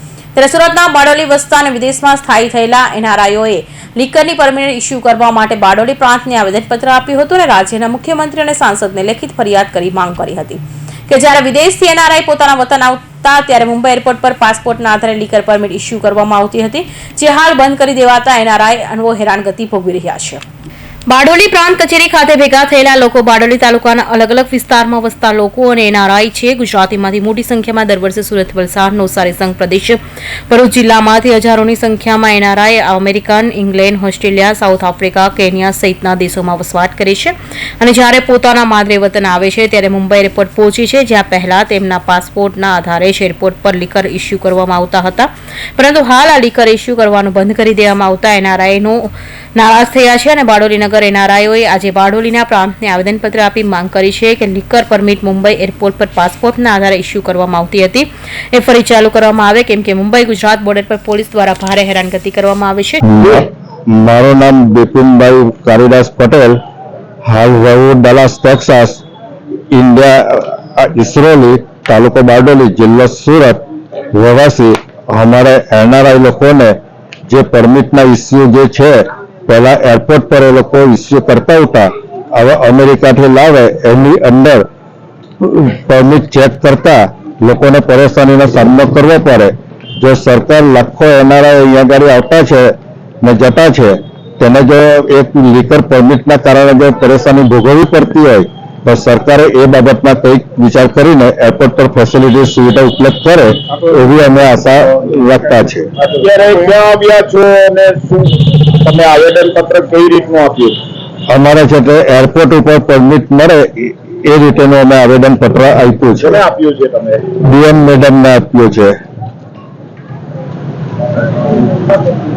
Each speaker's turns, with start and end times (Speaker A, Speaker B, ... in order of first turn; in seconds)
Speaker A: 0.3-20.4, 21.1-63.0
Speaker B: 63.0-66.6, 67.2-69.0, 69.7-84.7, 85.4-105.9, 111.3-116.4, 117.4-119.0
Speaker C: 106.0-110.8, 116.2-117.2, 121.7-122.2